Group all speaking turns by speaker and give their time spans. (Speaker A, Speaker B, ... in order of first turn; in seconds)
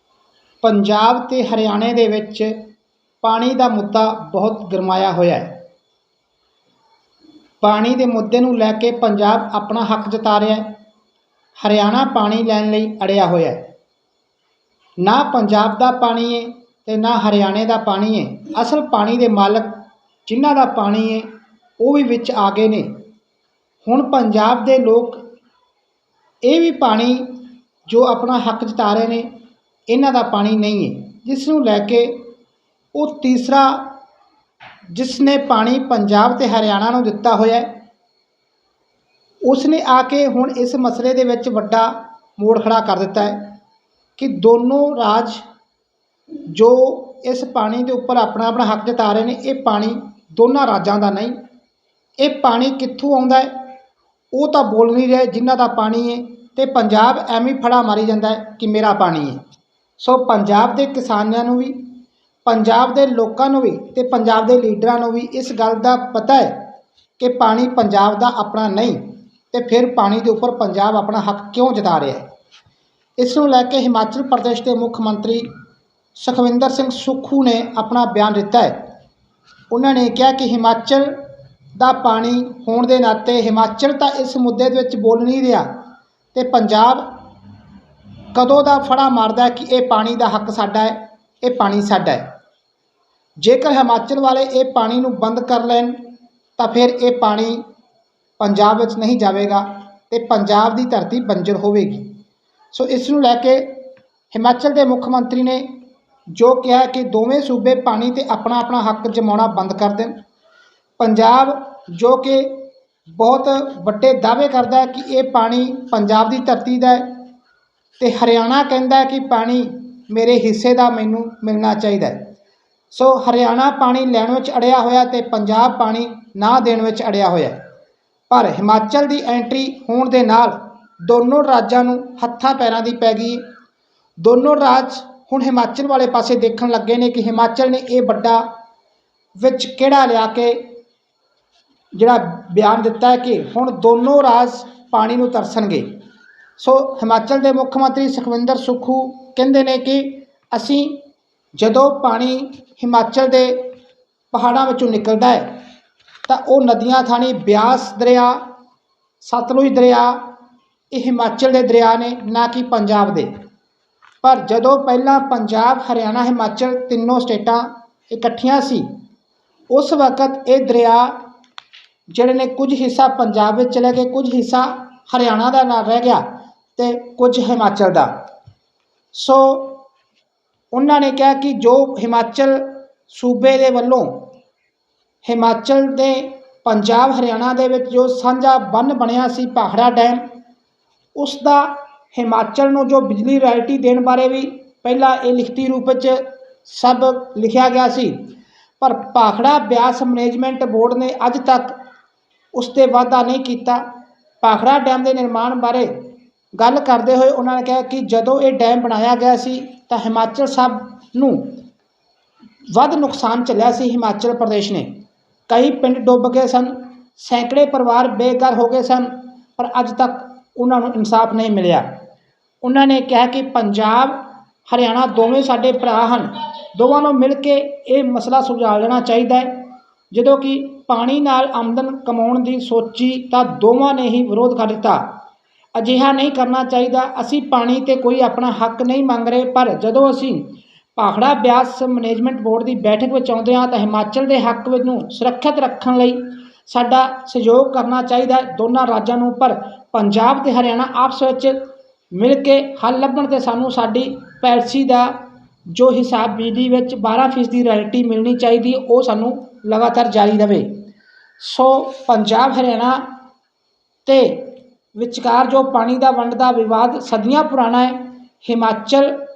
Speaker A: 0.6-2.6, 3.2-5.6, 7.6-10.8, 11.6-13.7, 15.0-21.3, 21.8-22.9, 23.8-25.2, 26.4-29.3, 29.9-32.2, 33.0-33.9, 34.9-37.7, 39.5-43.5, 44.2-45.4, 46.5-51.4, 52.2-53.7, 54.3-59.4, 60.0-61.9, 62.5-66.6, 67.2-72.3, 73.2-75.5, 76.2-78.8, 79.7-81.2, 81.8-85.7, 86.3-87.1, 88.3-92.3, 93.4-97.6, 98.4-102.1, 102.7-105.7, 106.3-110.2, 111.0-112.6, 113.2-117.2, 118.0-122.2, 122.9-127.6, 128.3-133.4, 134.2-138.4, 139.4-140.7, 141.9-145.9, 146.6-151.0, 151.6-153.7, 154.3-155.6, 156.3-158.4, 159.2-160.2, 160.9-163.3, 164.2-168.8, 169.7-171.2, 172.1-176.2, 176.8-178.1, 179.1-179.8, 180.7-184.3, 185.2-190.2, 191.2-198.2, 198.8-201.8, 202.6-203.8, 204.4-205.9, 206.6-211.6, 212.7-214.9, 215.5-221.9, 222.6-235.2, 235.8-251.6, 252.1-255.2, 255.7-260.7, 261.4-263.1, 264.1-269.2